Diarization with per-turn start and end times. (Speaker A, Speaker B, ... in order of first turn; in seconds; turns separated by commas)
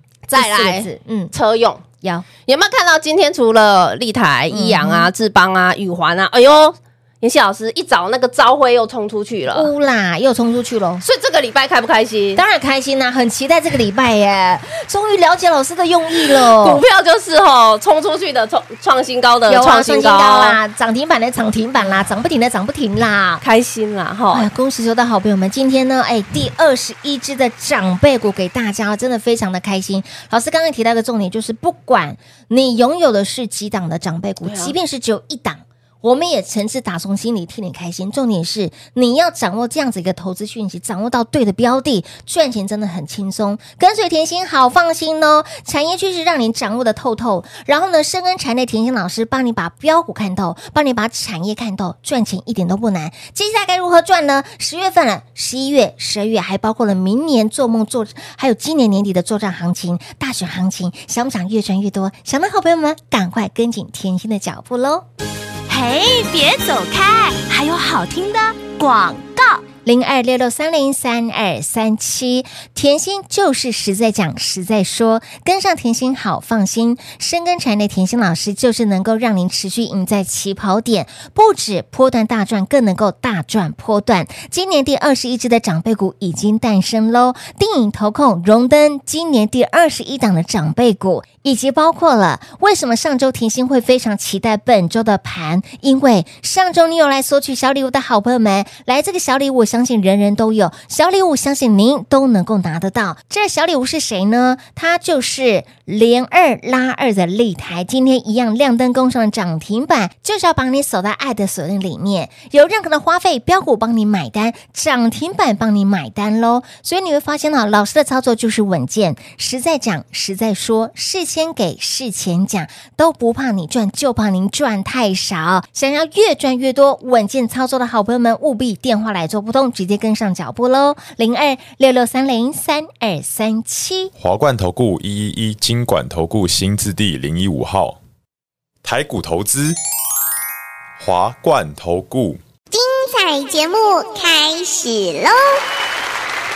Speaker A: 0.3-1.8, Speaker B: 0.3-1.3, Speaker B: 2.0-2.2, Speaker A: 2.5-9.7, Speaker B: 4.5-5.1, Speaker B: 9.5-11.0, Speaker A: 11.0-12.4, Speaker B: 12.3-16.8, Speaker A: 16.4-20.6, Speaker B: 19.5-23.4, Speaker A: 23.4-24.5, Speaker B: 24.3-65.0, Speaker A: 34.4-34.7, Speaker C: 65.7-69.7, Speaker B: 69.8-134.1, Speaker D: 134.2-138.0, Speaker D: 138.8-139.8, Speaker D: 141.0-142.4, Speaker E: 142.7-145.6